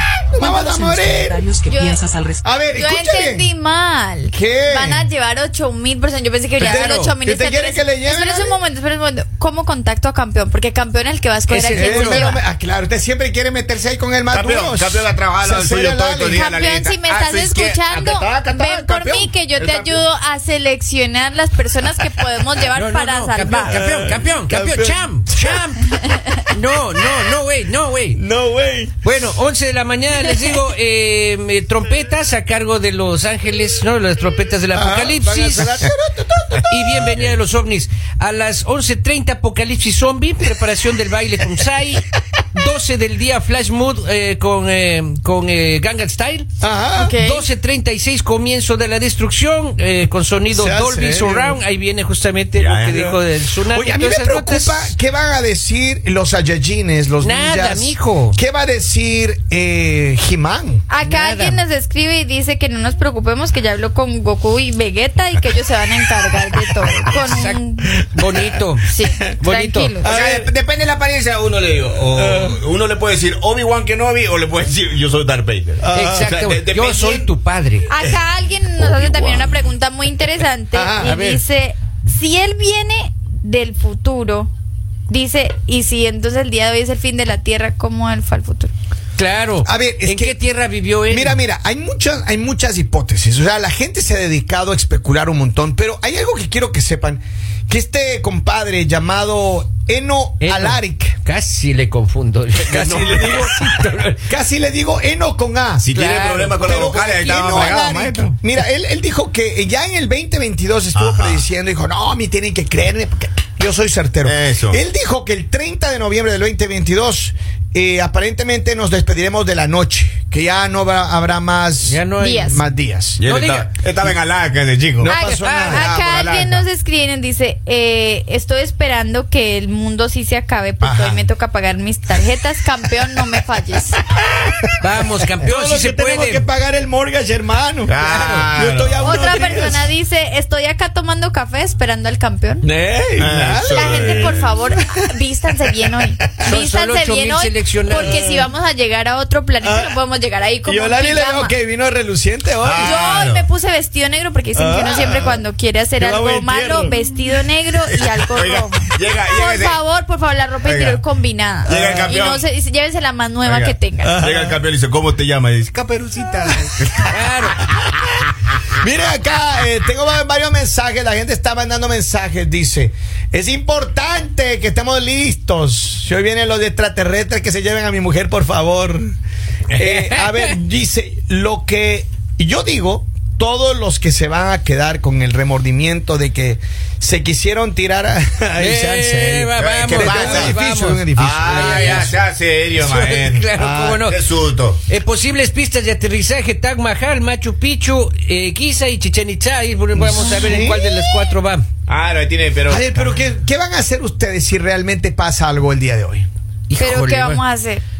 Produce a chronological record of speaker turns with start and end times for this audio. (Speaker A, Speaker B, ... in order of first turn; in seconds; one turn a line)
Speaker A: 0.3-1.4
Speaker B: 0.4-2.4
Speaker C: 1.6-2.0
Speaker A: 2.4-3.5
Speaker C: 2.8-12.4
Speaker A: 4.3-5.1
Speaker A: 6.6-8.6
Speaker D: 6.6-7.2
Speaker D: 11.5-12.3
Speaker A: 11.7-16.4
Speaker E: 14.3-20.1
Speaker C: 16.3-23.8
Speaker D: 22.7-28.2
Speaker A: 23.7-25.6
Speaker A: 28.1-28.9
Speaker D: 29.0-35.8
Speaker A: 34.7-36.7
Speaker D: 36.7-46.5
Speaker A: 46.6-47.1
Speaker C: 46.9-47.5
Speaker D: 47.1-54.9
Speaker A: 50.5-51.6
Speaker E: 52.6-53.1
Speaker A: 53.7-60.8
Speaker D: 57.2-58.4
Speaker C: 60.9-68.0
Speaker D: 61.0-61.6
Speaker D: 67.2-70.0
Speaker A: 68.0-68.4
Speaker C: 68.8-70.1
Speaker A: 70.0-70.5
Speaker E: 70.0-77.3
Speaker A: 72.1-72.6
Speaker A: 75.8-76.3
Speaker D: 75.9-77.9
Speaker C: 77.9-84.5
Speaker A: 78.8-79.3
Speaker A: 80.7-81.2
Speaker D: 81.0-81.4
Speaker C: 85.1-88.7
Speaker D: 89.2-91.4
Speaker A: 89.6-90.4
Speaker A: 91.1-101.2
Speaker D: 100.4-104.2
Speaker A: 102.7-103.6
Speaker A: 104.3-105.9
Speaker E: 105.8-108.3
Speaker D: 105.9-107.2
Speaker A: 106.6-123.2
Speaker E: 110.9-111.4
Speaker E: 114.2-114.8
Speaker D: 121.8-122.6
Speaker C: 122.2-122.6
Speaker E: 123.2-126.7
Speaker D: 123.2-124.1
Speaker A: 125.0-125.9
Speaker C: 125.0-134.0
Speaker D: 125.1-125.9
Speaker A: 130.8-131.2
Speaker E: 130.8-131.2
Speaker D: 134.8-136.5
Speaker A: 135.4-139.9
Speaker E: 137.8-139.7
Speaker D: 138.0-138.5
Speaker C: 139.0-142.6
Speaker A: 142.6-145.0
Speaker E: 143.2-144.5
Speaker C: 143.6-151.5
Speaker D: 146.4-148.3
Speaker A: 148.0-148.5
Speaker A: 149.6-149.9
Speaker A: 150.6-153.0
Speaker E: 152.6-153.5
Speaker C: 152.8-164.2
Speaker A: 154.5-155.4
Speaker A: 156.0-156.9
Speaker E: 157.8-159.8
Speaker E: 160.6-161.0
Speaker A: 161.7-162.1
Speaker E: 161.7-162.4
Speaker E: 163.4-168.1
Speaker A: 164.0-164.6
Speaker D: 167.1-167.6
Speaker A: 168.8-179.1
Speaker A: 179.7-192.1
Speaker D: 179.8-180.6
Speaker D: 188.6-192.2
Speaker E: 189.5-190.6
Speaker E: 191.1-193.5
Speaker D: 192.7-194.2
Speaker A: 193.6-194.0
Speaker E: 194.0-194.8
Speaker D: 194.9-201.7
Speaker A: 200.0-200.8
Speaker E: 201.9-203.1
Speaker A: 202.7-206.3
Speaker D: 206.7-207.4
Speaker C: 206.8-207.8